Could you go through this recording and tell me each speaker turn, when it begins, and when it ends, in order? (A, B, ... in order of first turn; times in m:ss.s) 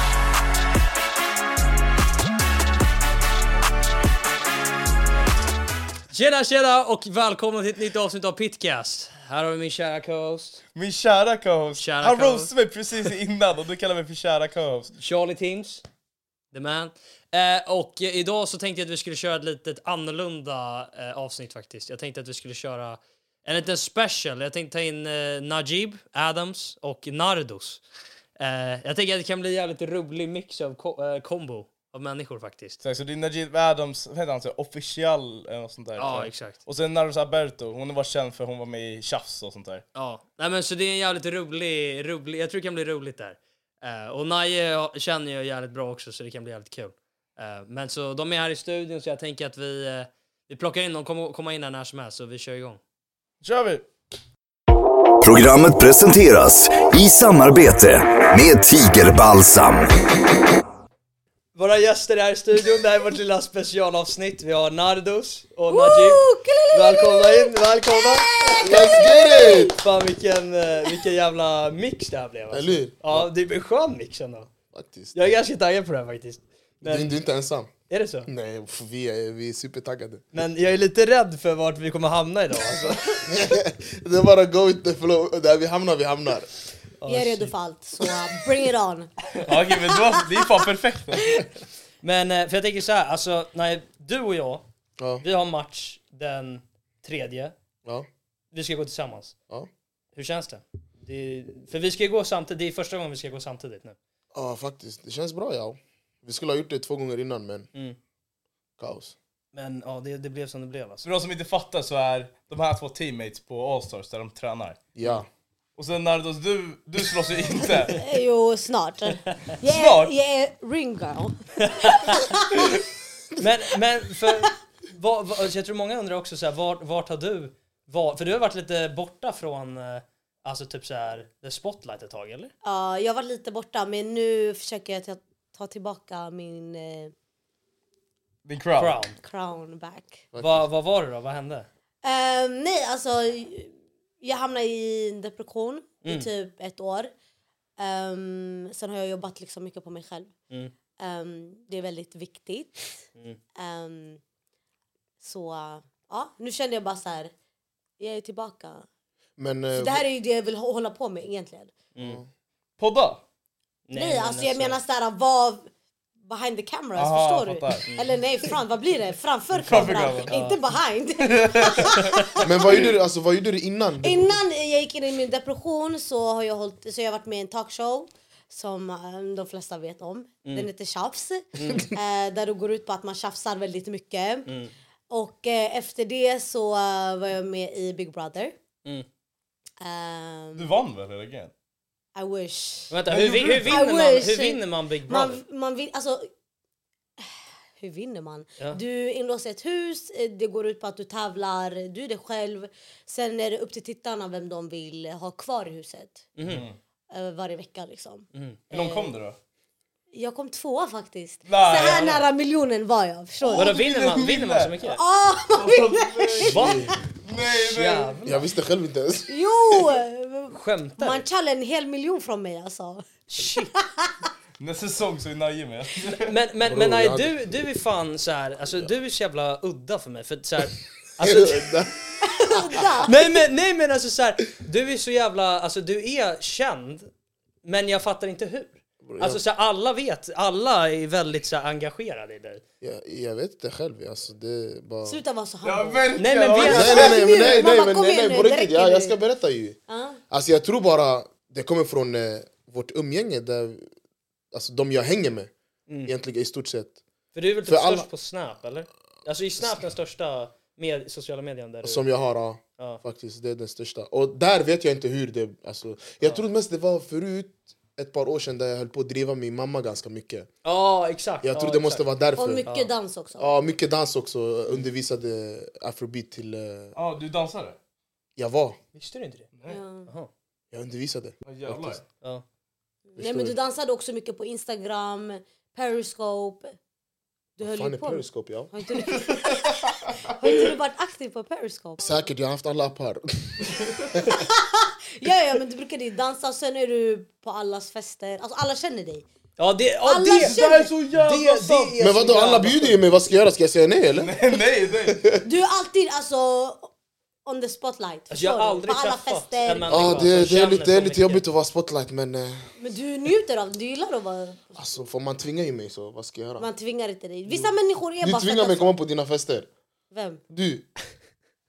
0:06.1-0:10.6 A
0:10.8-0:14.9 B
0:11.8-0:12.5 A
0:15.0-0:15.8 A
0:16.5-0:27.8 A
0:28.4-0:32.8 A
0:32.8-0:39.8 B
0:36.0-0:36.6 A
0:39.9-0:52.8 A
0:53.4-0:53.8 B
0:55.2-0:59.9 C
1:01.6-1:08.6 A
1:05.7-1:09.8 D
1:08.6-1:09.8 E
1:09.8-1:14.5 A
1:12.5-1:13.3 E
1:14.7-1:15.2 E
1:15.1-1:17.2 A
1:16.8-1:17.7 E
1:17.9-1:18.3 A
1:18.3-1:20.2 E
1:20.3-1:23.3 A
1:23.3-1:26.5 E
1:27.0-1:27.6 A
1:27.1-1:29.3 D
1:29.4-1:31.4 B
1:32.0-1:34.6 A
1:35.0-1:35.2 E
1:35.2-1:37.5 A
1:38.5-1:39.3 A
1:40.1-1:44.0 A
1:44.3-1:47.7 E
1:48.8-1:49.1 E
1:49.5-1:51.1 A
1:51.0-1:54.8 B
1:55.0-1:55.3 E
1:55.8-1:58.0 B
1:57.8-2:02.6 D
1:59.6-2:00.1 B
2:01.6-2:02.2 A
2:03.4-2:12.5 A
2:12.6-2:17.1 D
2:18.4-2:19.0 B
2:18.8-2:19.2 A
2:19.2-2:20.2 D
2:20.3-2:20.7 E
2:20.4-2:21.7 A
2:22.0-2:27.1 D
2:27.8-2:30.3 D
2:31.0-2:33.0 D
2:33.6-2:34.2 D
2:35.2-2:37.3 D
2:38.0-2:38.8 D
2:39.4-2:40.0 E
2:39.7-2:41.8 D
2:42.0-2:42.2 A
2:42.0-2:42.3 E
2:42.8-2:43.2 B
2:43.9-2:44.8 A
2:43.9-2:45.7 D
2:46.2-2:52.8 D
2:47.0-2:47.9 B
2:47.9-2:48.2 A
2:49.5-2:50.6 B
2:49.7-2:50.4 A
2:51.2-2:52.1 B
2:52.4-2:54.4 E
2:54.0-3:04.5 D
3:01.5-3:01.9 A
3:04.4-3:04.7 A
3:05.1-3:08.6 D
3:09.8-3:10.7 D
3:10.5-3:11.5 B
3:12.1-3:12.9 D
3:12.9-3:15.4 A
3:13.1-3:13.8 B
3:13.6-3:16.3 D
3:17.2-3:26.3 D
3:26.4-3:26.7 A
3:26.4-3:26.8 B
3:27.1-3:29.1 D
3:28.3-3:28.6 A
3:28.7-3:29.4 B
3:30.1-3:33.7 D
3:31.4-3:32.3 B
3:33.4-3:34.8 B
3:33.5-3:35.0 A
3:34.8-3:36.9 D
3:35.5-3:38.2 B
3:36.5-3:38.5 A
3:38.2-3:39.3 E
3:39.3-3:44.2 D
3:40.5-3:41.2 A
3:43.3-3:43.7 A
3:44.6-3:46.3 B
3:46.2-3:51.8 A
3:46.6-3:47.4 E
3:51.2-3:52.9 E
3:52.3-3:53.1 D
3:53.0-3:57.1 A
3:57.6-4:02.6 A
3:59.0-3:59.4 E
4:02.8-4:05.2 E
4:05.0-4:09.1 D
4:05.6-4:07.6 B
4:06.2-4:07.0 A
4:06.6-4:09.8 E
4:09.9-4:10.2 D
4:10.3-4:13.9 E
4:14.5-4:15.5 E
4:15.9-4:16.1 A
4:16.0-4:17.0 E
4:17.3-4:22.1 A
4:17.6-4:18.1 E
4:21.8-4:30.5 E
4:30.6-4:32.1 A
4:31.4-4:32.6 E
4:32.4-4:33.5 D
4:33.4-4:36.9 E
4:36.9-4:37.8 B
4:38.4-4:38.8 E
4:38.9-4:39.5 A
4:39.7-4:40.1 D
4:40.7-4:42.0 E
4:41.4-4:42.0 B
4:43.1-4:46.7 D
4:43.2-4:43.6 E
4:47.6-4:52.1 D
4:47.6-4:48.7 E
4:49.1-4:49.9 B
4:52.0-4:54.4 E
4:54.2-4:59.2 D
4:59.6-5:00.6 A
5:00.0-5:00.9 D
5:00.3-5:02.0 B
5:01.1-5:03.0 A
5:02.0-5:04.5 E
5:04.2-5:05.2 B
5:05.1-5:05.4 E
5:05.4-5:06.9 D
5:07.4-5:10.3 D
5:08.3-5:11.4 A
5:09.9-5:12.7 E
5:12.8-5:14.8 D
5:14.8-5:16.7 E
5:16.6-5:18.9 D
5:17.5-5:19.7 E
5:20.1-5:20.4 D
5:20.5-5:20.9 E